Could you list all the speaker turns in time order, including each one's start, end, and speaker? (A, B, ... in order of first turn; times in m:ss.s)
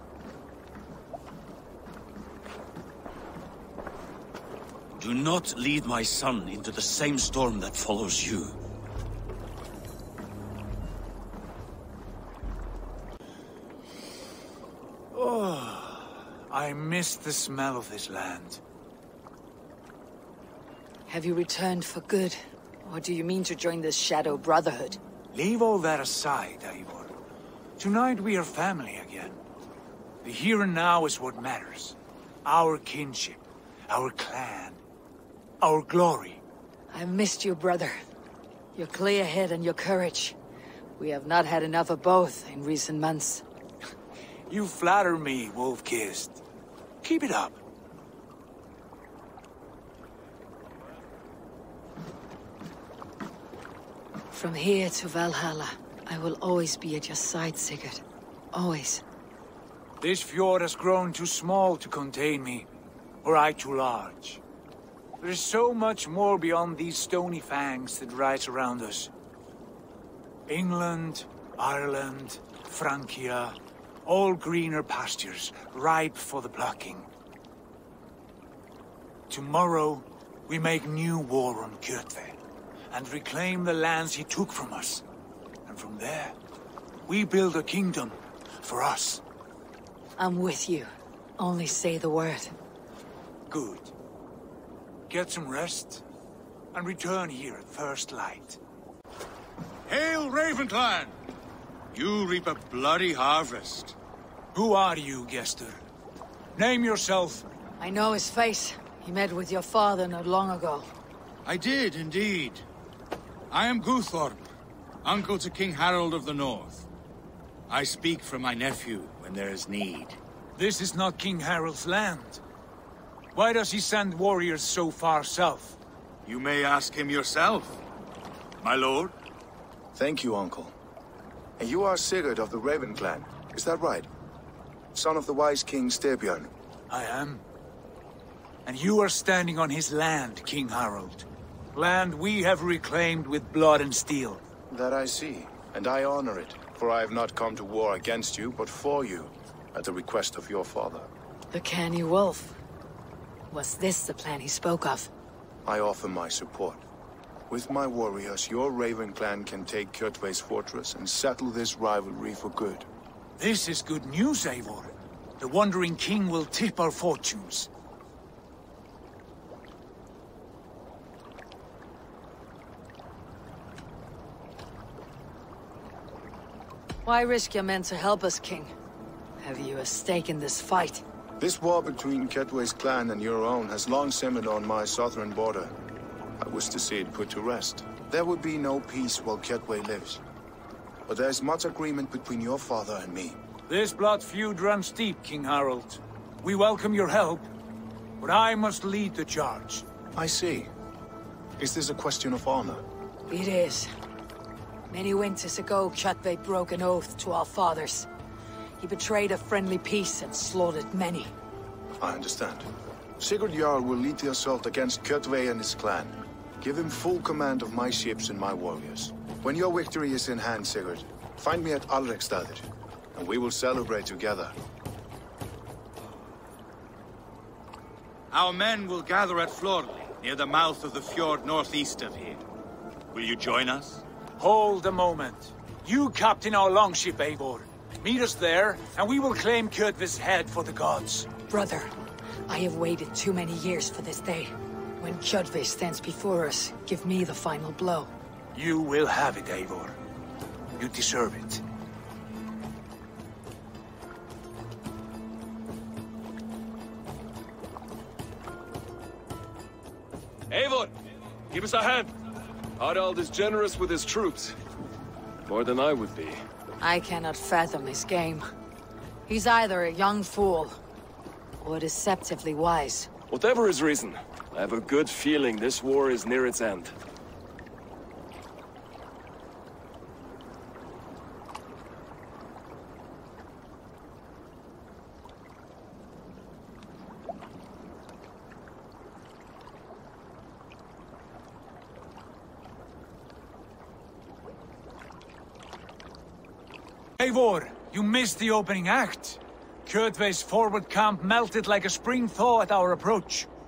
0:05.0-0:08.6 A
0:15.1-0:18.6 B
0:21.1-0:25.0 C
0:25.3-0:27.1 B
0:27.8-0:29.4 B
0:30.2-0:34.8 B
0:35.6-0:36.4 B
0:36.9-0:38.0 C
0:38.8-0:40.4 C
0:41.0-0:43.4 C
0:44.5-0:46.4 B
0:47.0-0:47.6 B
0:54.3-0:59.0 C
1:00.0-1:02.6 B
1:03.2-1:04.4 B
1:05.2-1:09.1 B
1:10.5-1:17.1 B
1:19.3-1:22.4 B
1:22.9-1:25.0 B
1:25.6-1:26.4 B
1:27.1-1:29.2 B
1:30.2-1:32.5 C
1:33.5-1:33.9 B
1:35.1-1:36.0 B
1:36.7-1:38.6 B
1:39.9-1:41.1 D
1:41.9-1:44.0 D
1:44.5-1:45.8 B
1:46.6-1:47.4 B
1:47.8-1:50.9 C
1:51.4-1:52.6 D
1:53.5-1:54.5 D
1:55.0-1:56.9 D
1:57.7-2:00.2 D
2:00.6-2:02.4 B
2:03.3-2:05.8 B
2:06.2-2:07.8 D
2:08.6-2:09.1 D
2:09.9-2:10.7 E
2:11.6-2:14.1 E
2:14.9-2:16.5 E
2:16.9-2:17.4 B
2:18.6-2:24.4 B
2:24.7-2:31.1 E
2:31.5-2:32.6 C
2:33.5-2:35.1 C
2:35.6-2:36.8 E
2:37.5-2:42.9 E
2:43.4-2:47.7 B
2:57.0-2:58.7 C
2:59.4-3:01.0 C
3:01.4-3:05.7 E
3:06.4-3:10.2 E
3:11.1-3:13.4 E
3:13.7-3:17.5 B
3:18.2-3:19.8 B
3:20.1-3:20.7 E
3:21.6-3:22.8 E
3:23.3-3:23.9 C
3:24.9-3:28.1 C
3:28.8-3:31.3 C
3:32.0-3:32.7 E
3:33.2-3:44.5 E
3:48.3-3:52.4 D
3:53.1-3:54.0 D
3:54.4-4:01.3 B
4:01.5-4:01.9 C
4:02.5-4:08.1 C
4:08.6-4:10.0 B
4:10.8-4:11.6 B
4:20.5-4:20.9 F
4:21.5-4:22.1 F
4:22.8-4:24.6 F
4:25.4-4:26.4 F
4:26.8-4:28.4 C
4:29.3-4:30.8 C
4:31.6-4:33.1 C
4:33.3-4:36.9 F
4:57.2-5:03.5 B